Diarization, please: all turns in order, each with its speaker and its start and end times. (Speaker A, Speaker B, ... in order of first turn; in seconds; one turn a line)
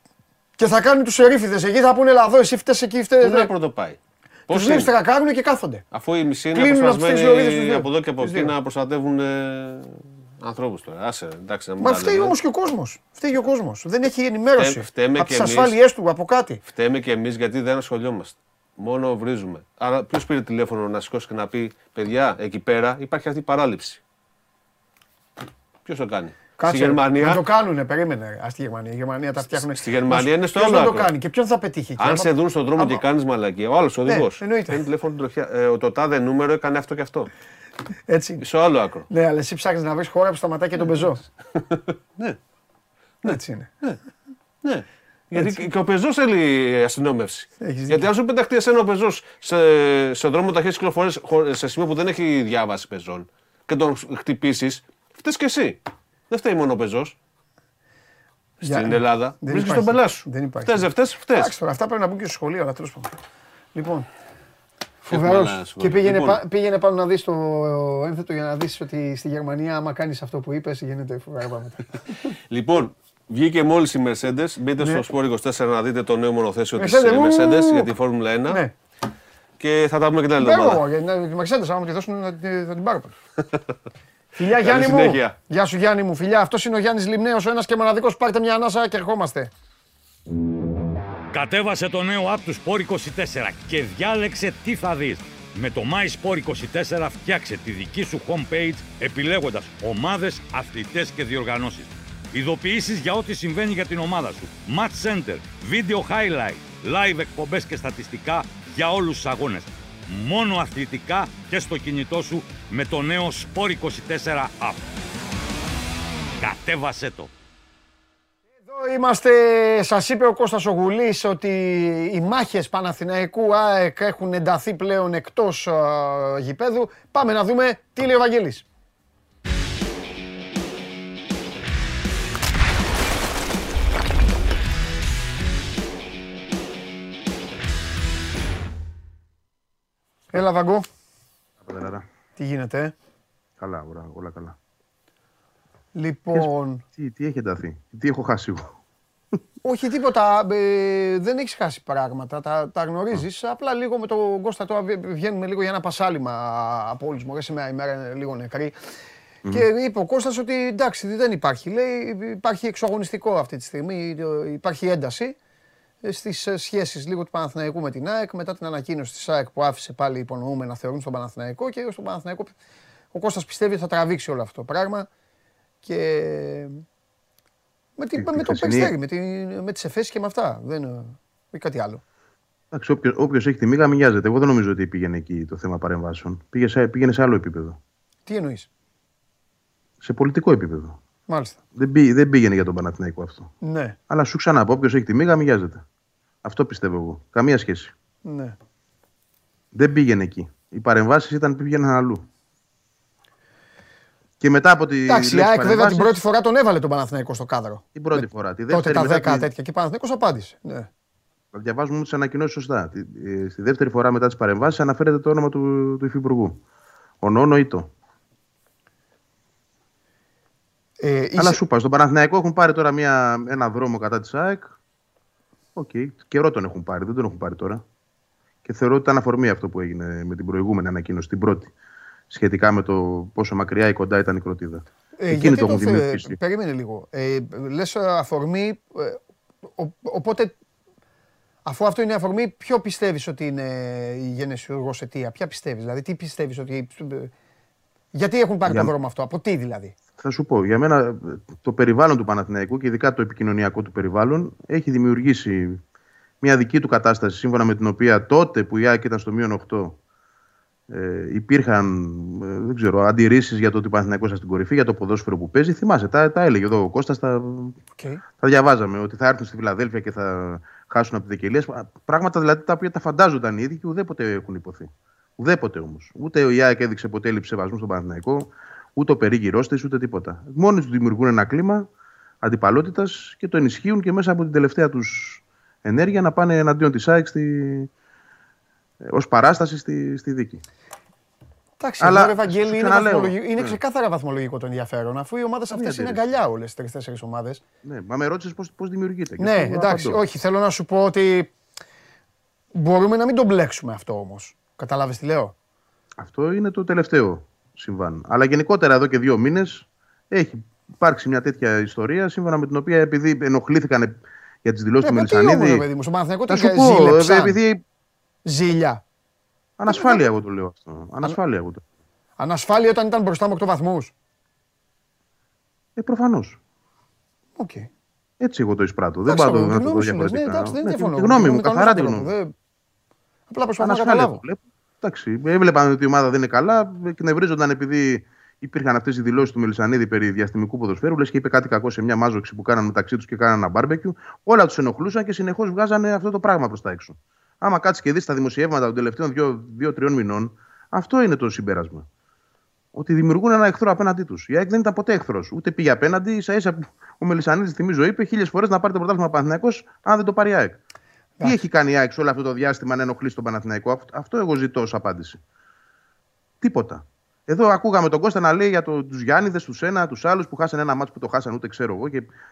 Speaker A: 0.6-3.5
Speaker B: 3.2-4.9
Speaker A: 4.5-5.8
Speaker B: 5.9-12.3
Speaker A: 6.5-8.5
Speaker A: 11.8-16.6
Speaker B: 14.6-15.8
Speaker B: 16.7-24.0
Speaker B: 25.8-27.4
Speaker A: 26.6-33.0
Speaker B: 29.5-31.1
Speaker B: 32.0-37.3
Speaker A: 34.0-34.8
Speaker A: 38.1-38.4
Speaker B: 38.4-39.1
Speaker A: 39.1-41.2
Speaker B: 41.5-41.9
Speaker A: 43.2-43.7
Speaker B: 43.3-44.0
Speaker B: 44.6-57.1
Speaker A: 45.3-45.6
Speaker A: 47.6-48.1
Speaker A: 58.6-63.1
Speaker B: 58.6-61.5
Speaker A: 63.7-64.1
Speaker A: 65.0-72.3
Speaker B: 65.1-66.4
Speaker B: 72.5-78.6
Speaker A: 76.8-77.9
Speaker B: 79.6-80.8
Speaker A: 80.4-83.1
Speaker A: 84.4-89.5
Speaker B: 84.6-85.3
Speaker C: 91.3-114.8
Speaker C: 116.4-117.3
Speaker A: 118.7-128.6
Speaker A: 140.3-140.8
Speaker D: 141.6-142.0
Speaker A: 142.4-142.9
Speaker D: 143.6-144.6
Speaker A: 145.9-146.8
Speaker D: 146.3-148.7
Speaker A: 149.6-158.7
Speaker A: 159.5-165.3
Speaker A: 166.0-172.5
Speaker A: 173.1-175.1
Speaker A: 175.8-176.8
Speaker A: 178.0-182.0
Speaker D: 178.2-178.9
Speaker D: 182.7-187.8
Speaker A: 188.3-188.7
Speaker D: 190.0-191.0
Speaker A: 191.3-191.6
Speaker D: 191.8-193.5
Speaker A: 193.6-193.9
Speaker D: 194.1-195.8
Speaker D: 196.4-197.9
Speaker A: 198.2-198.5
Speaker D: 199.7-202.2
Speaker D: 204.4-206.2
Speaker A: 205.1-210.9
Speaker D: 207.9-209.5
Speaker D: 211.5-216.6
Speaker D: 217.2-217.9
Speaker A: 221.0-221.6
Speaker D: 221.4-224.7
Speaker D: 225.7-227.8
Speaker D: 228.6-231.7
Speaker D: 232.3-236.4
Speaker A: 235.2-239.2
Speaker A: 239.8-240.5
Speaker A: 241.7-247.3
Speaker A: 248.1-249.9
Speaker D: 248.6-248.9
Speaker D: 250.2-255.8
Speaker D: 256.4-260.0
Speaker D: 260.9-267.8
Speaker A: 267.9-268.2
Speaker D: 268.4-281.9
Speaker D: 282.4-287.9
Speaker D: 289.1-290.6
Speaker A: 291.8-297.6
Speaker D: 292.0-293.8
Speaker D: 295.7-296.3
Speaker D: 297.8-300.2
Speaker A: 299.4-301.5
Speaker A: 302.7-305.5
Speaker D: 306.2-315.8
Speaker A: 315.0-317.6
Speaker D: 316.5-317.8
Speaker A: 318.4-319.0
Speaker D: 319.8-321.8
Speaker A: 319.9-320.2
Speaker A: 322.4-324.1
Speaker D: 325.9-326.6
Speaker A: 327.6-327.9
Speaker D: 328.4-332.3
Speaker A: 329.3-332.5
Speaker A: 333.5-334.4
Speaker D: 333.8-352.1
Speaker D: 352.9-360.8
Speaker D: 361.4-365.4
Speaker D: 366.6-372.3